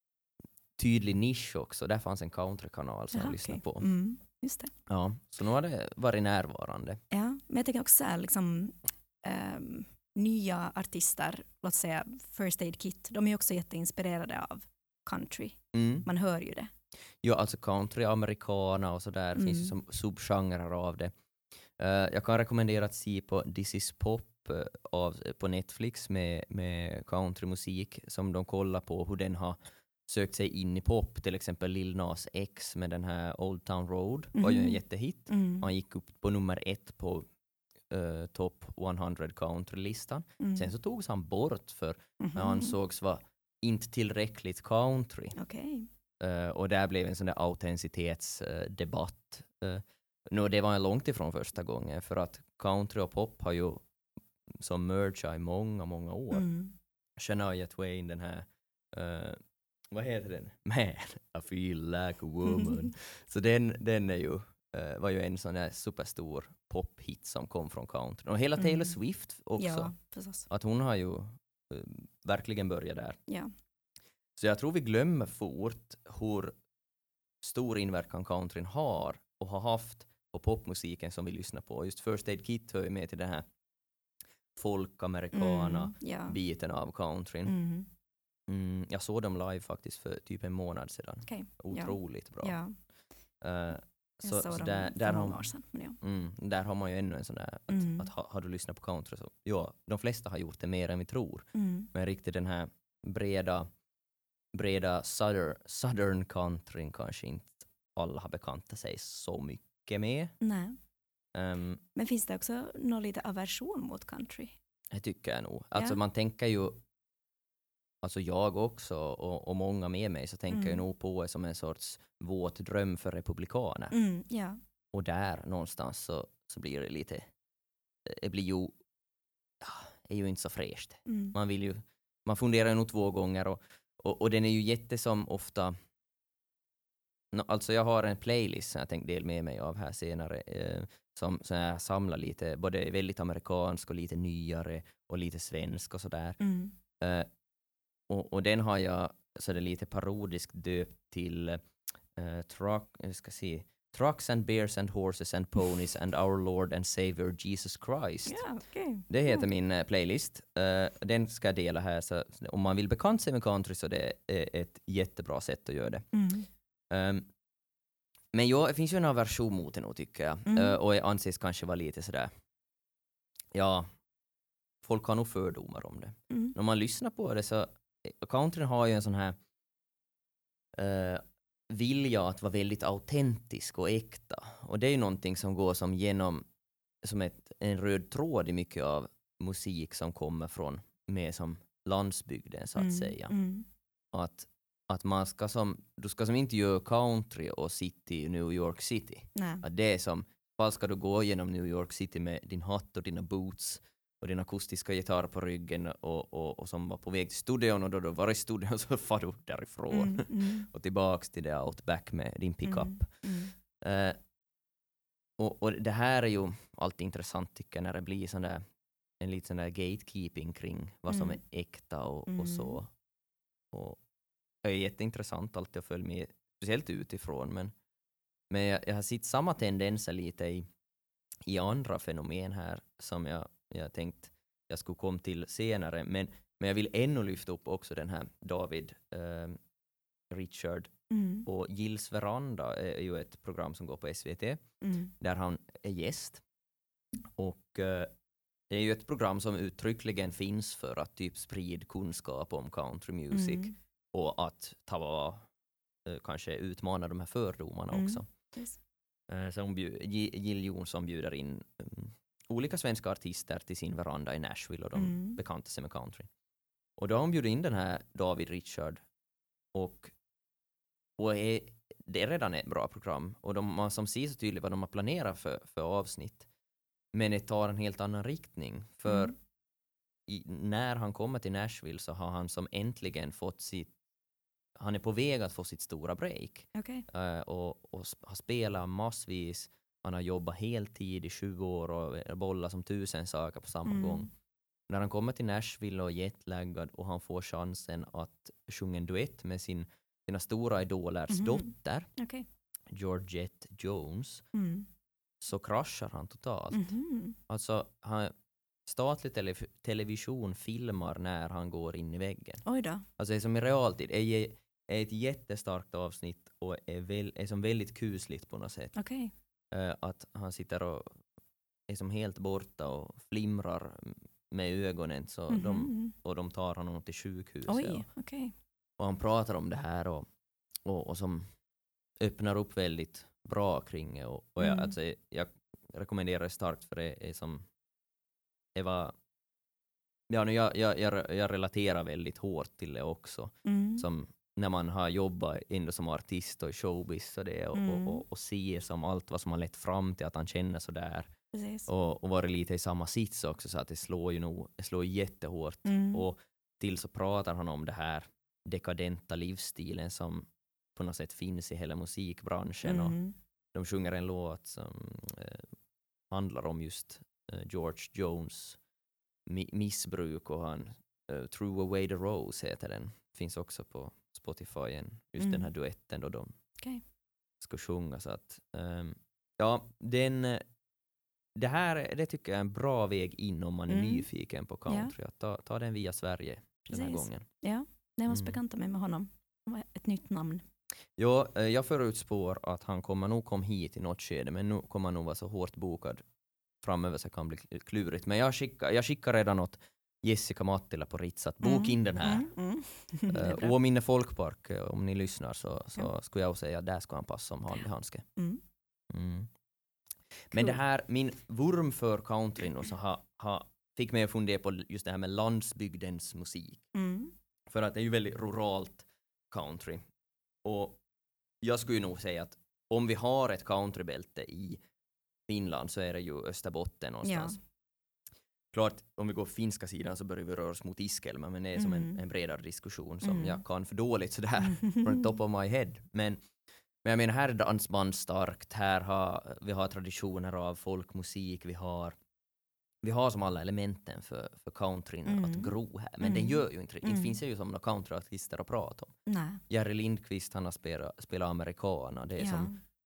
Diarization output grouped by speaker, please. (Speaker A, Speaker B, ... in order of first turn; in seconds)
Speaker A: 0.8-3.9, 4.9-7.0, 15.7-16.1, 17.2-21.1, 21.8-37.3, 37.9-45.4, 46.2-53.8, 54.6-56.5, 57.2-59.4, 59.9-69.9, 70.5-73.2, 74.4-76.5, 77.4-83.5, 84.6-87.5, 88.5-92.6, 93.4-95.5, 96.0-103.7, 104.5-110.3, 111.3-111.8, 114.9-116.8, 118.0-123.9, 124.9-127.3, 128.1-128.8, 129.6-135.8, 137.3-146.4, 147.0-147.3, 148.1-158.4, 159.1-166.1, 166.9-167.3, 168.3-172.3, 173.5-173.9, 174.8-179.4, 180.8-186.5, 187.0-193.3, 194.1-213.3, 213.8-214.2, 215.4-218.6, 219.2-222.9, 223.7-224.0, 224.6-227.7, 228.5-230.7, 231.4-239.6, 240.3-240.9, 241.4-244.6, 245.2-246.4, 247.4-248.1, 248.7-255.5, 256.1-258.3, 259.3-266.3, 267.0-269.0, 269.7-270.1, 271.2-276.5, 277.1-279.4, 280.3-283.9, 284.8-294.3, 294.9-302.1, 302.9-304.4, 305.4-308.3, 308.9-312.6, 313.2-318.9, 319.7-321.2, 321.9-328.1, 329.0-330.3, 330.9-331.5, 332.2-337.7, 338.8-339.1, 340.3-351.3, 351.9-363.2, 363.7-365.7, 366.3-368.8, 369.5-376.5, 377.6-380.6, 381.6-387.5, 388.3-388.6, 391.2-396.2, 396.8-402.5, 403.3-408.3, 409.1-409.5, 410.5-416.8, 417.7-420.0, 420.6-421.0, 421.6-424.8, 425.5-427.6, 428.7-436.4, 437.0-442.2, 443.0-449.2, 449.7-452.7
Speaker B: 3.1-4.7, 7.1-16.7, 19.4-19.7, 34.4-35.6, 40.4-40.7, 42.2-42.8, 45.4-45.9, 56.3-56.7, 68.6-68.9, 69.6-70.5, 85.3-86.4, 87.5-87.9, 91.3-92.8, 94.2-96.0, 97.7-98.1, 101.5-101.9, 110.4-110.8, 112.0-114.6, 120.5-120.8, 123.9-124.6, 131.1-131.4, 146.4-146.7, 158.3-159.4, 166.1-166.5, 170.5-170.8, 176.3-176.6, 192.8-193.7, 199.3-199.6, 209.9-210.7, 212.6-213.5, 221.1-221.4, 222.3-222.8, 241.1-241.5, 244.8-245.1, 253.3-253.8, 257.9-258.8, 264.9-265.4, 279.1-279.4, 286.8-287.1, 293.9-294.3, 301.3-302.5, 304.5-304.9, 306.7-307.4, 312.6-313.1, 318.9-319.3, 325.5-326.1, 327.7-328.5, 334.6-334.9, 343.6-344.1, 347.7-348.2, 351.5-351.9, 355.9-356.2, 362.8-363.4, 375.4-375.7, 383.9-384.3, 384.9-385.1, 386.9-390.6, 401.6-403.7, 408.4-408.6, 410.5-410.8, 416.9-417.3, 427.2-427.6, 431.8-432.2, 433.2-433.6, 434.6-435.2, 445.2-447.3, 449.3-449.6, 452.4-452.8